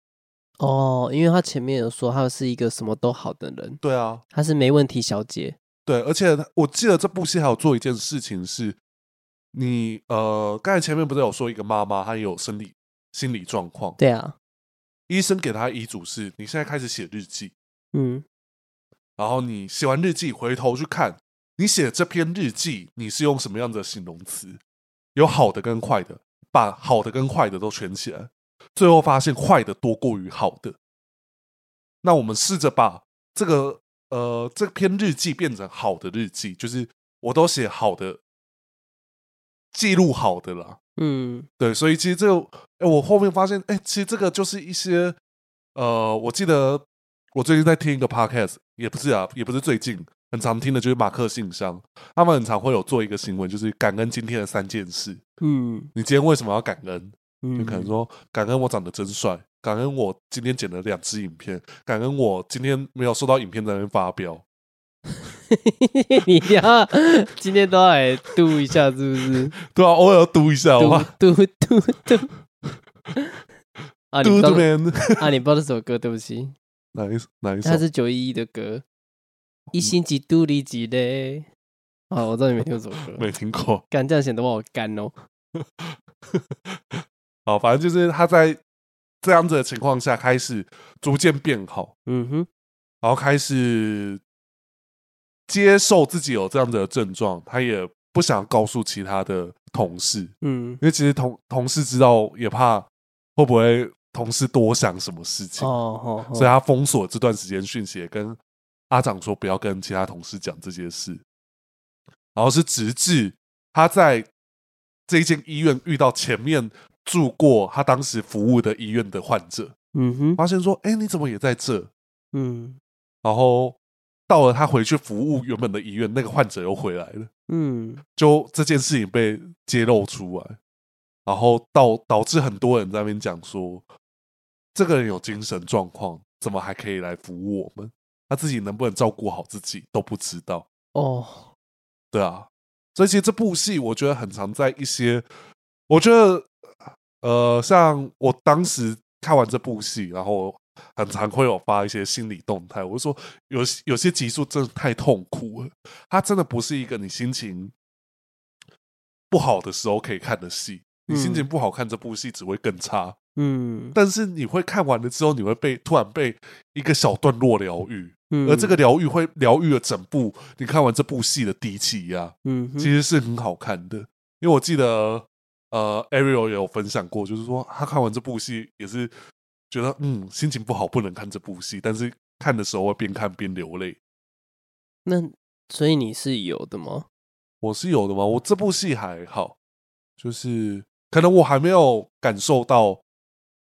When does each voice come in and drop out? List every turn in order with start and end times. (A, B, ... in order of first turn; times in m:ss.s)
0:00.6-0:03.8 A
0:03.8-0:04.2 B
0:04.3-0:05.6 A
0:05.8-0:08.8 B
0:09.5-0:14.0 B
0:14.0-0:14.4 A
0:15.1-0:17.5 B
0:17.9-0:18.2 A
0:19.2-0:24.6 B
0:25.1-0:30.8 B
0:32.0-0:38.2 B
0:39.7-0:40.8 B
0:41.0-0:41.5 A
0:41.6-0:45.2 B
0:45.7-0:55.2 B
0:55.4-0:55.9 A
0:55.9-1:04.4 B
0:57.4-0:57.9 A
1:05.5-1:09.5 A
1:09.6-1:11.1 B
1:10.8-1:12.3 A
1:14.1-1:16.5 A
1:14.2-1:15.2 B
1:16.9-1:17.8 B
1:17.6-1:18.8 A
1:19.7-1:21.5 A
1:22.1-1:23.2 A
1:23.1-1:23.8 B
1:23.9-1:25.1 A
1:25.6-1:28.6 B
1:29.2-1:31.9 B
1:32.0-1:32.5 A
1:33.0-1:34.2 B
1:35.5-1:45.7 B
1:40.4-1:40.8 A
1:45.6-1:46.5 A
1:46.3-1:48.4 B
1:48.9-1:51.2 B
1:52.3-1:54.3 B
1:55.1-1:59.7 B
1:59.9-2:00.4 A
2:00.4-2:01.9 B
2:02.3-2:02.8 A
2:03.2-2:03.8 B
2:04.3-2:07.3 B
2:07.5-2:08.0 A
2:08.2-2:10.6 B
2:11.2-2:13.9 B
2:14.7-2:20.6 B
2:20.9-2:21.5 A
2:22.1-2:25.2 B
2:25.9-2:26.5 B
2:27.2-2:37.7 B
2:39.3-2:43.2 B
2:41.1-2:41.5 A
2:43.4-2:44.0 A
2:43.9-2:59.1 B
2:48.3-2:48.8 A
2:52.4-2:52.9 A
2:59.7-3:04.0 B
3:05.0-3:07.0 A
3:07.6-3:09.6 B
3:10.2-3:13.0 B